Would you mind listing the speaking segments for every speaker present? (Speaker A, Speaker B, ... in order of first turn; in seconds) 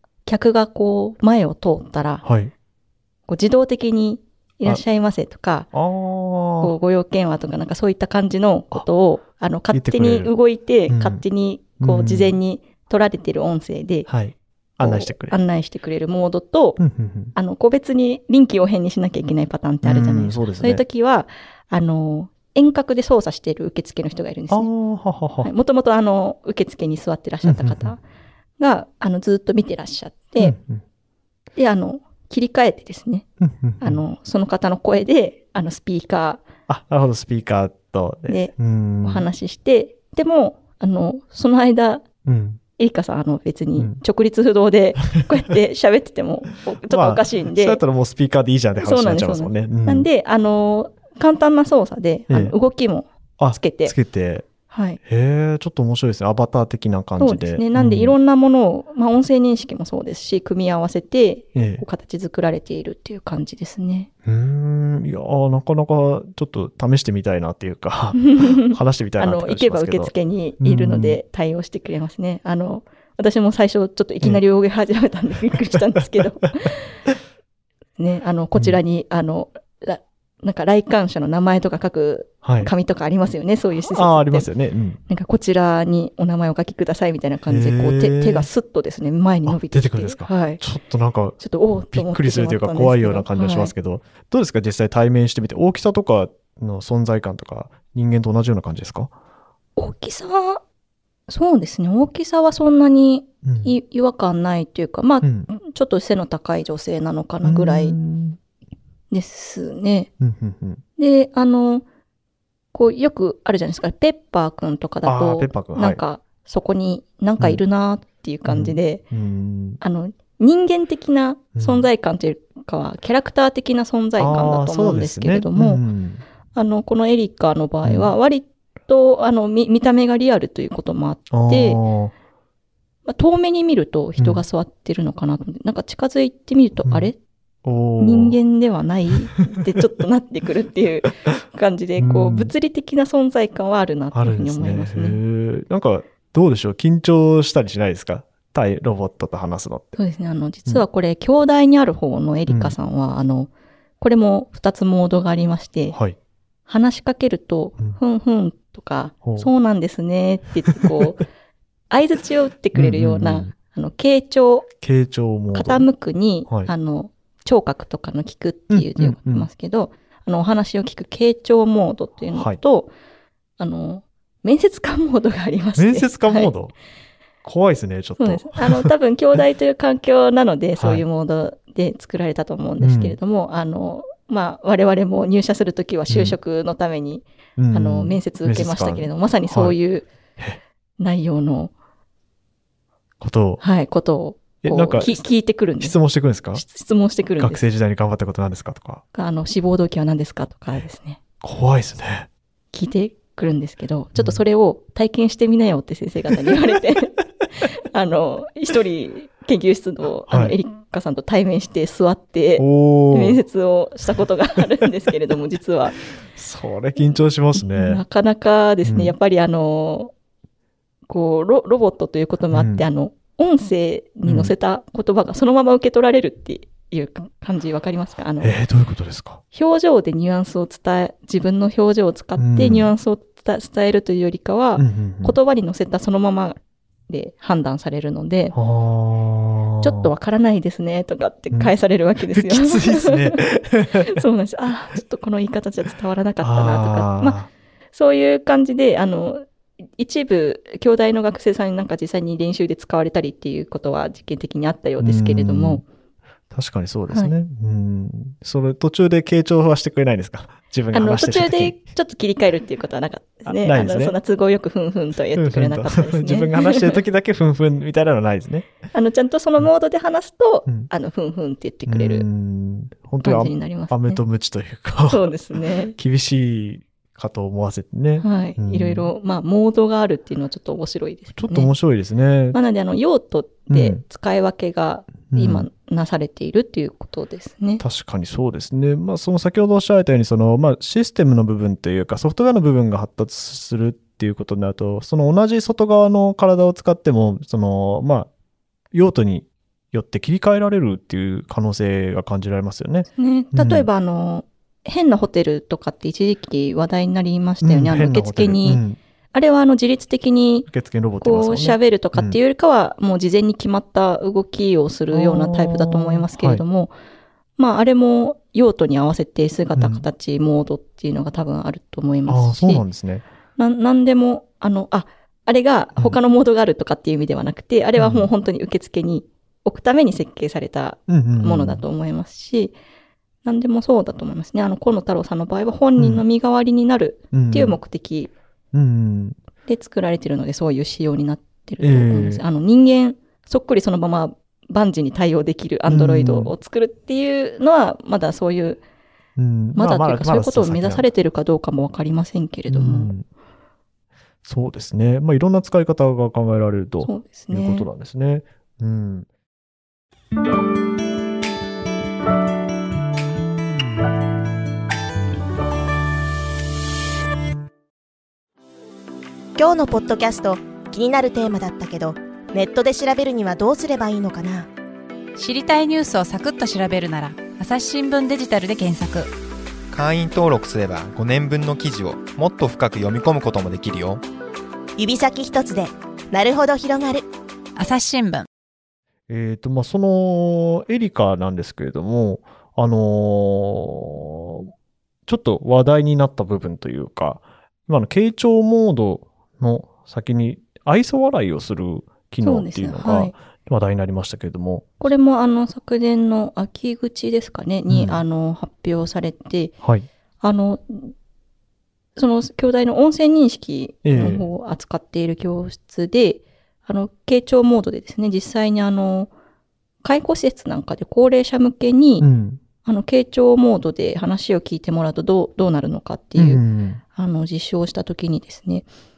Speaker A: 0.2-2.2, 3.3-5.7, 6.6-14.1, 14.8-16.8, 17.3-24.7, 25.4-28.0, 28.6-30.6, 31.6-33.3, 33.8-36.4, 38.3-42.0, 42.8-47.8, 48.8-53.9, 54.7-55.0, 57.2-64.1, 68.2-76.8, 78.0-84.5, 85.1-90.6, 91.4-93.7, 99.8-100.6, 101.3-108.0, 109.1-110.1, 111.0-111.8, 112.7-119.0, 119.8-125.8, 126.5-131.8, 133.1-137.2, 138.0-145.2, 149.9-153.5, 154.0-156.0, 156.7-161.2, 161.9-164.7, 165.5-172.9, 173.6-176.5, 178.2-190.1, 191.0-191.7, 193.6-195.9, 196.5-197.6, 199.1-201.2, 202.7-216.0, 217.5-220.1, 221.1-228.5, 229.5-238.6, 239.8-247.4, 247.9-249.4, 250.0-255.8, 260.9-267.0, 268.9-272.2, 273.2-274.2, 275.1-275.9, 278.2-281.7, 282.5-287.8, 303.1-308.8, 309.3-310.7, 311.2-316.9, 317.6-322.8, 323.6-332.7, 333.4-338.3, 339.7-348.8, 349.7-353.1, 357.0-357.9, 402.4-403.3, 405.0-409.8, 410.4-411.1, 412.1-419.3, 420.0-422.2, 422.8-426.6, 427.1-428.9
Speaker B: 2.2-2.5, 5.7-6.7, 9.7-10.3, 10.9-11.2, 11.8-12.4, 14.1-15.4, 16.8-17.3, 19.8-20.8, 24.5-25.5, 27.4-27.9, 30.4-30.8, 33.4-34.0, 36.7-39.2, 42.2-42.6, 46.9-50.1, 52.3-52.5, 53.4-54.5, 55.0-58.2, 61.5-61.8, 64.2-71.2, 78.5-78.8, 82.4-82.7, 83.9-85.0, 87.5-88.5, 89.5-91.4, 91.9-99.1, 103.4-103.8, 105.2-105.5, 107.4-108.4, 110.2-110.8, 115.0-116.0, 118.5-119.8, 121.5-121.9, 124.2-126.2, 127.8-128.1, 131.3-132.1, 134.2-134.4, 136.8-137.1, 137.6-138.4, 142.0-142.5, 144.1-150.0, 152.5-152.8, 159.2-159.5, 162.7-163.5, 164.8-165.9, 168.7-169.5, 172.3-172.6, 175.8-176.7, 177.4-178.9, 180.8-181.0, 182.8-183.2, 186.1-186.4, 187.6-189.8, 193.2-193.6, 194.6-196.6, 197.4-199.0, 201.4-202.3, 210.3-210.6, 212.6-213.4, 216.2-218.0, 218.8-219.1, 222.5-222.8, 224.2-224.5, 228.4-229.4, 232.3-232.9, 234.8-235.3, 238.5-240.1, 241.5-244.2, 246.4-247.5, 255.0-255.8, 256.5-261.9, 263.5-264.1, 265.4-268.7, 271.9-275.3, 275.9-279.1, 281.3-282.6, 283.7-284.0, 285.3-285.7, 287.8-298.3, 298.9-303.9, 307.6-309.0, 310.7-312.4, 315.1-316.6, 319.7-320.1, 322.3-323.2, 328.0-328.3, 331.1-331.8, 336.0-336.2, 337.3-337.8, 338.7-339.4, 341.8-342.4, 345.9-346.5, 349.4-351.1, 352.7-353.2, 354.4-359.3, 389.3-394.7, 395.3-405.1, 407.9-408.2, 414.0-414.5, 422.2-422.6, 426.4-427.0
Speaker C: 369.6-374.7, 385.0-387.2
Speaker D: 375.4-379.3, 387.8-388.5
Speaker E: 379.9-384.2